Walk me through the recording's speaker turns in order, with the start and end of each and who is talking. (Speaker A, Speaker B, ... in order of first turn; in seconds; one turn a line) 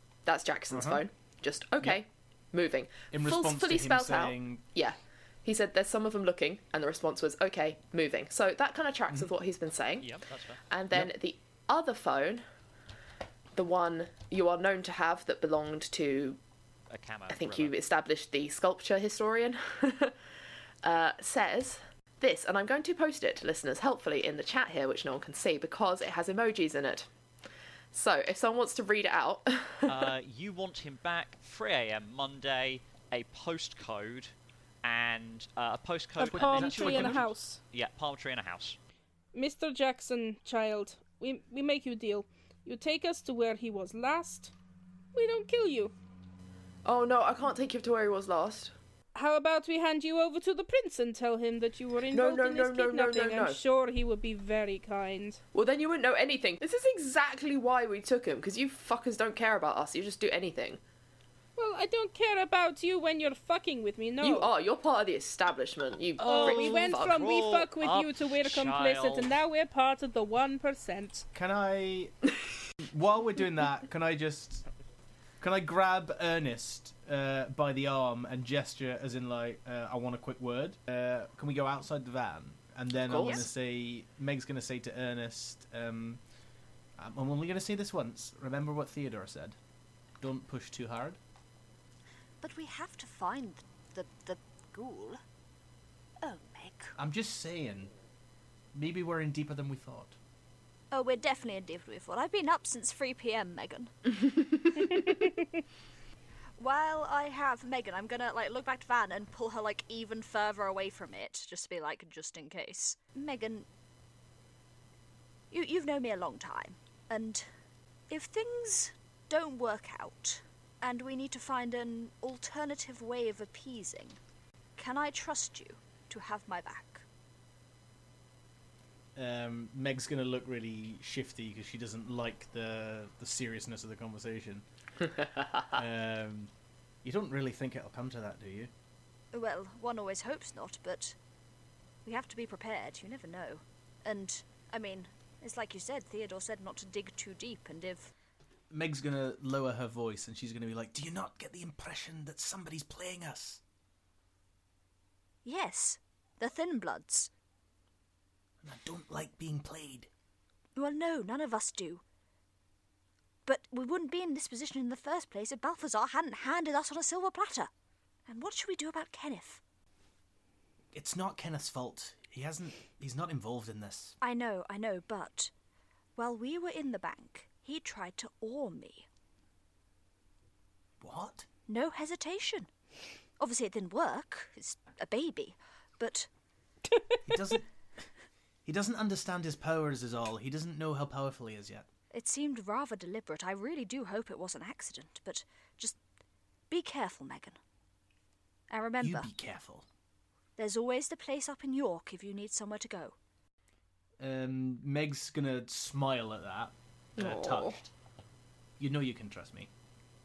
Speaker A: 0.2-10.1
Speaker B: 0.7-1.0
Speaker B: 3.1-4.6
Speaker C: 10.0-10.6
Speaker A: 10.7-12.4
Speaker A: 13.5-16.4
Speaker C: 16.9-17.7
Speaker A: 17.3-20.1
Speaker A: 20.8-27.1
Speaker A: 27.9-30.1
Speaker C: 29.9-38.8
Speaker D: 36.2-37.6
Speaker B: 36.2-37.3
Speaker D: 39.3-44.5
Speaker D: 45.1-45.9
Speaker A: 46.8-48.7
Speaker D: 49.1-55.4
Speaker A: 52.1-53.6
Speaker A: 55.5-60.8
Speaker D: 61.6-64.5
Speaker A: 64.2-67.2
Speaker C: 66.2-69.3
Speaker D: 66.2-71.2
Speaker B: 71.3-72.1
Speaker B: 72.9-74.6
Speaker B: 75.4-86.2
Speaker A: 83.0-83.5
Speaker E: 83.1-83.5
Speaker B: 87.0-89.5
Speaker B: 90.2-91.2
Speaker E: 92.4-95.2
Speaker E: 96.2-96.9
Speaker B: 97.0-97.9
Speaker B: 98.7-100.2
Speaker E: 100.9-103.9
Speaker E: 106.6-113.7
Speaker E: 115.5-117.5
Speaker E: 118.1-124.2
Speaker E: 124.8-127.0
Speaker B: 129.2-134.6
Speaker A: 135.2-135.7
Speaker B: 135.7-136.5
Speaker B: 137.0-138.7
Speaker E: 139.3-141.2
Speaker E: 142.0-148.1
Speaker B: 148.7-153.6
Speaker E: 155.4-157.3
Speaker B: 158.6-160.1
Speaker E: 160.8-162.0
Speaker E: 163.4-167.7
Speaker E: 168.3-169.6
Speaker B: 170.9-174.2
Speaker E: 174.2-175.5
Speaker E: 176.2-179.1
Speaker B: 181.0-181.5
Speaker E: 181.7-182.7
Speaker E: 183.4-186.3
Speaker B: 187.3-187.6
Speaker B: 188.6-191.8
Speaker E: 192.1-196.0
Speaker E: 196.7-197.6
Speaker E: 198.7-199.3
Speaker B: 199.0-199.8
Speaker E: 200.6-203.1
Speaker B: 204.2-207.8
Speaker A: 207.2-207.8
Speaker B: 208.8-209.7